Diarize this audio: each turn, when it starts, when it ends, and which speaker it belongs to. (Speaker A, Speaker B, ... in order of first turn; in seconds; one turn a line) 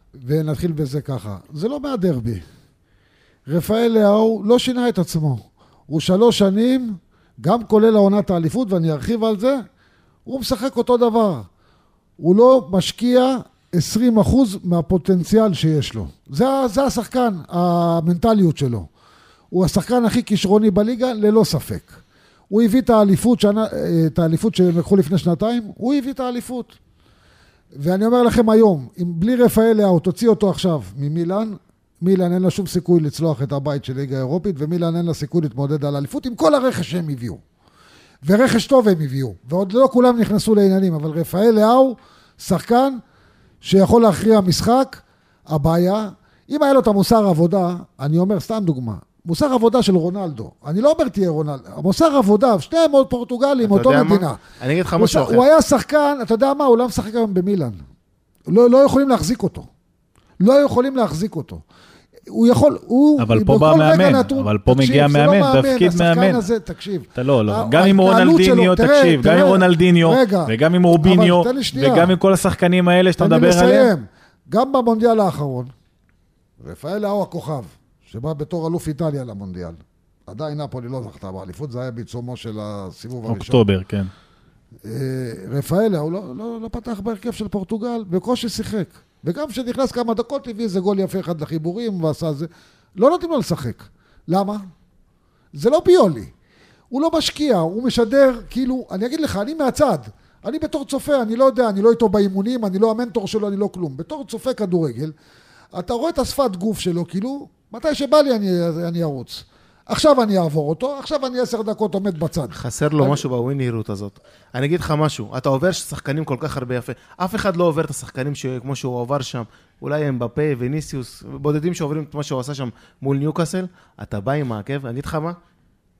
Speaker A: 0.2-2.4
Speaker A: 3.5-9.6
Speaker A: 10.3-11.5
Speaker A: 12.2-18.9
Speaker A: 19.5-22.0
Speaker A: 22.5-26.8
Speaker A: 27.8-37.4
Speaker A: 38.2-43.0
Speaker A: 43.6-54.4
Speaker B: 53.6-55.5
Speaker A: 55.0-57.8
Speaker A: 58.5-59.7
Speaker A: 60.4-61.6
Speaker A: 62.3-72.1
Speaker C: 63.2-66.5
Speaker C: 67.2-73.9
Speaker A: 73.2-75.7
Speaker A: 76.6-83.6
Speaker C: 83.3-84.1
Speaker A: 84.8-94.6
Speaker A: 95.5-96.3
Speaker A: 96.9-105.1
Speaker A: 105.7-113.2
Speaker B: 112.5-125.4